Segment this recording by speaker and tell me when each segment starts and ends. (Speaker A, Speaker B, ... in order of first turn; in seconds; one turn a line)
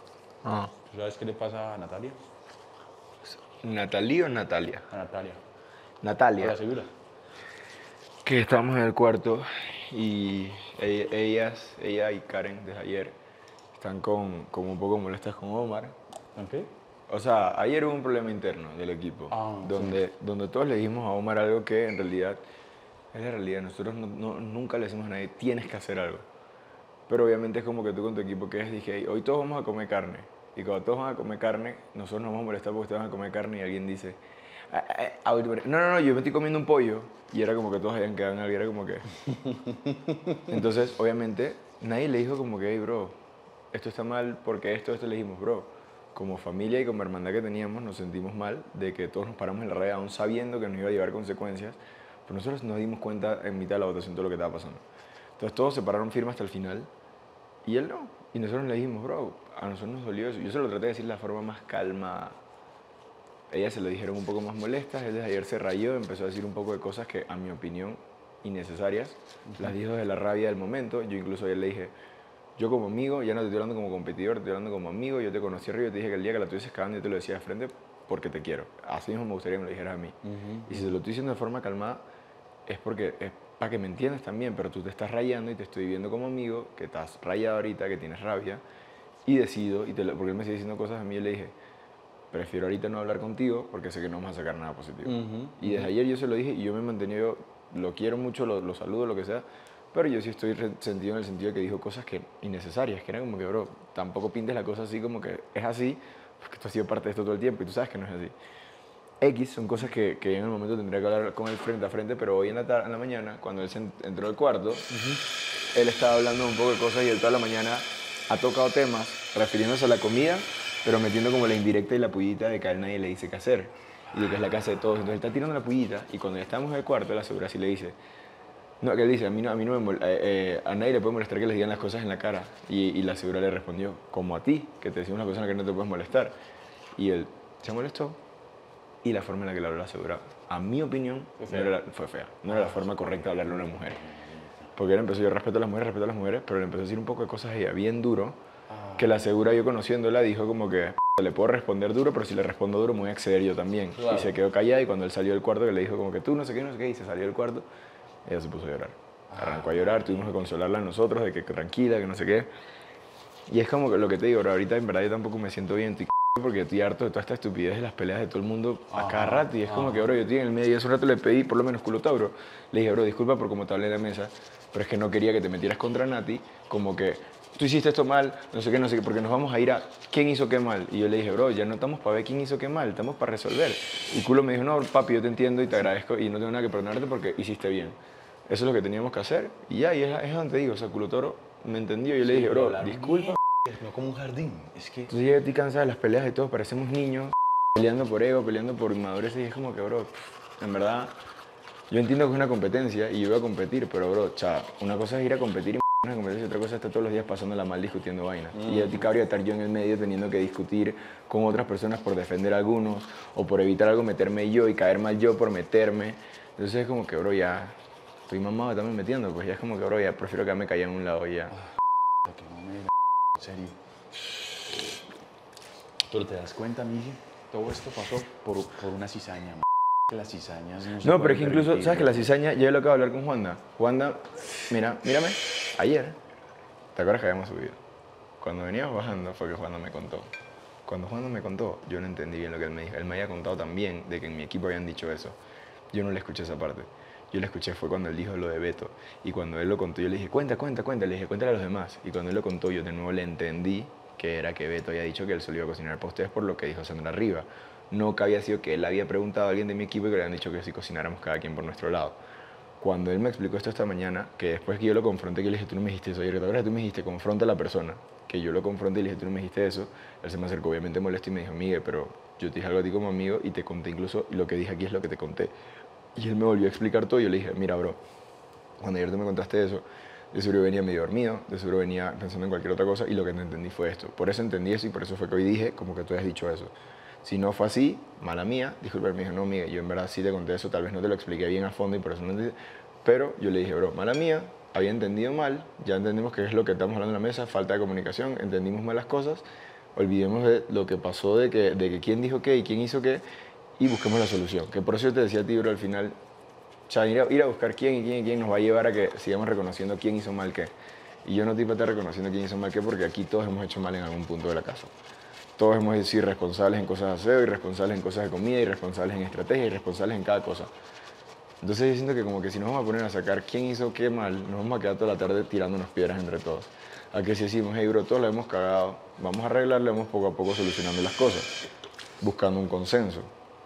Speaker A: 0.4-0.7
Speaker B: 0.9-2.2
Speaker A: 3.6-4.9
Speaker B: 4.9-5.4
Speaker A: 6.0-6.6
Speaker B: 6.4-6.9
Speaker A: 8.2-13.2
Speaker A: 13.8-15.9
Speaker B: 16.4-16.7
Speaker A: 17.1-22.4
Speaker B: 19.3-20.0
Speaker A: 23.1-26.2
Speaker A: 27.1-39.0
Speaker B: 40.3-40.5
Speaker A: 40.5-43.2
Speaker A: 43.7-54.8
Speaker A: 55.4-56.9
Speaker A: 57.6-62.4
Speaker A: 63.5-71.9
Speaker B: 69.5-69.7
Speaker A: 72.6-80.2
Speaker B: 80.2-81.0
Speaker A: 80.7-82.0
Speaker A: 82.7-88.6
Speaker A: 89.3-91.5
Speaker A: 92.3-108.3
Speaker B: 95.0-95.9
Speaker A: 109.2-114.9
Speaker B: 114.9-115.2
Speaker A: 115.7-128.0
Speaker A: 128.8-136.3
Speaker A: 137.0-138.2
Speaker A: 139.0-144.0
Speaker B: 141.4-141.8
Speaker B: 142.5-144.7
Speaker A: 144.8-148.4
Speaker B: 148.7-149.1
Speaker A: 149.0-157.7
Speaker B: 153.9-154.4
Speaker A: 158.2-162.5
Speaker B: 159.3-160.4
Speaker A: 163.5-188.0
Speaker B: 168.9-170.1
Speaker A: 188.5-193.4
Speaker B: 192.2-195.1
Speaker A: 195.1-201.2
Speaker A: 201.9-217.8
Speaker B: 208.5-209.0
Speaker A: 218.3-221.6
Speaker B: 222.2-223.8
Speaker B: 226.1-232.3
Speaker A: 231.0-236.2
Speaker A: 236.9-237.8
Speaker A: 238.4-240.3
Speaker A: 240.9-245.4
Speaker A: 245.9-262.2
Speaker A: 262.8-275.5
Speaker A: 276.1-278.0
Speaker A: 278.8-303.2
Speaker A: 303.8-306.2
Speaker A: 306.9-310.7
Speaker A: 311.2-314.9
Speaker A: 315.6-320.7
Speaker A: 321.6-331.5
Speaker A: 332.2-333.3